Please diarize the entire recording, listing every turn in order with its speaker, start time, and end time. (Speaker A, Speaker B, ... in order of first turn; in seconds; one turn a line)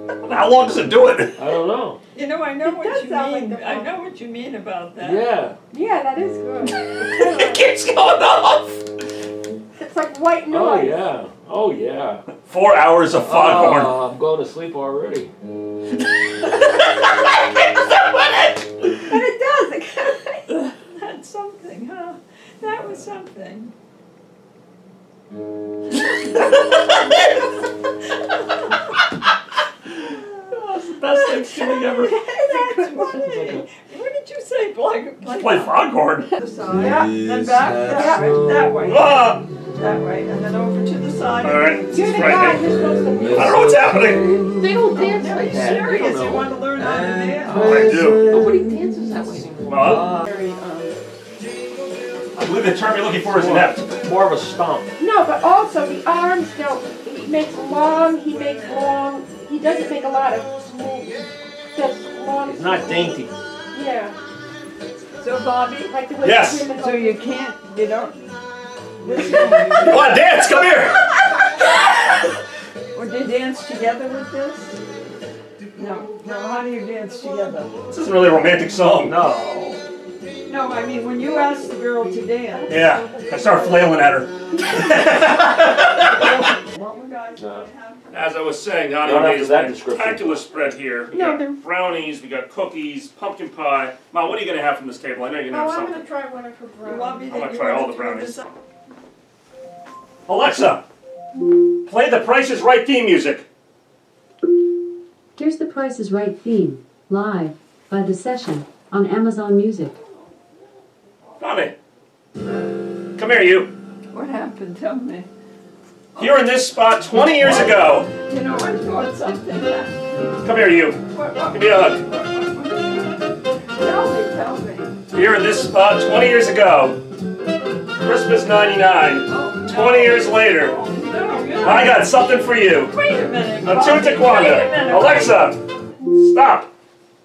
Speaker A: 0.2-1.5
Speaker B: 1.4-2.0
Speaker C: 2.1-5.3
Speaker D: 2.6-3.9
Speaker B: 5.0-5.6
Speaker D: 5.7-7.7
Speaker A: 6.6-8.8
Speaker D: 9.8-11.1
Speaker B: 10.5-12.2
Speaker A: 12.3-14.0
Speaker B: 13.2-15.3
Speaker C: 19.0-23.7
Speaker C: 25.9-27.4
Speaker C: 28.3-28.9
Speaker C: 30.0-35.8
Speaker A: 30.8-32.1
Speaker D: 32.0-33.2
Speaker B: 33.1-33.6
Speaker A: 35.3-36.3
Speaker C: 36.4-42.0
Speaker D: 36.7-37.1
Speaker D: 37.9-38.3
Speaker A: 38.9-39.5
Speaker A: 41.4-42.7
Speaker D: 41.9-43.8
Speaker B: 42.8-49.9
Speaker A: 43.3-44.3
Speaker D: 44.5-45.4
Speaker C: 45.0-47.7
Speaker A: 45.5-45.8
Speaker A: 47.5-48.2
Speaker D: 47.6-51.0
Speaker A: 49.6-50.1
Speaker A: 52.3-53.9
Speaker B: 53.2-54.9
Speaker D: 55.0-64.2
Speaker B: 62.4-63.3
Speaker C: 65.2-65.9
Speaker D: 65.9-67.2
Speaker A: 66.2-66.7
Speaker C: 66.7-68.3
Speaker B: 69.0-69.9
Speaker C: 69.0-70.1
Speaker A: 69.8-71.2
Speaker C: 72.9-74.8
Speaker C: 75.8-77.8
Speaker A: 77.9-79.4
Speaker B: 79.0-79.8
Speaker C: 80.5-82.8
Speaker D: 81.2-81.6
Speaker D: 82.5-84.0
Speaker A: 82.7-86.4
Speaker D: 84.5-87.2
Speaker C: 86.0-88.1
Speaker B: 87.3-87.7
Speaker A: 88.1-96.0
Speaker B: 89.0-90.4
Speaker D: 91.1-91.6
Speaker D: 95.5-97.5
Speaker C: 96.8-98.4
Speaker A: 97.3-98.4
Speaker A: 100.2-100.8
Speaker A: 101.8-103.4
Speaker E: 105.3-109.9
Speaker C: 109.9-110.4
Speaker A: 111.4-111.8
Speaker A: 113.2-113.7
Speaker C: 114.1-115.3
Speaker C: 116.1-116.5
Speaker A: 116.2-118.1
Speaker C: 117.2-120.3
Speaker A: 120.4-122.0
Speaker C: 121.1-125.0
Speaker A: 125.1-127.0
Speaker A: 128.0-130.8
Speaker C: 129.2-132.1
Speaker A: 131.6-132.9
Speaker C: 132.8-135.5
Speaker A: 133.6-136.7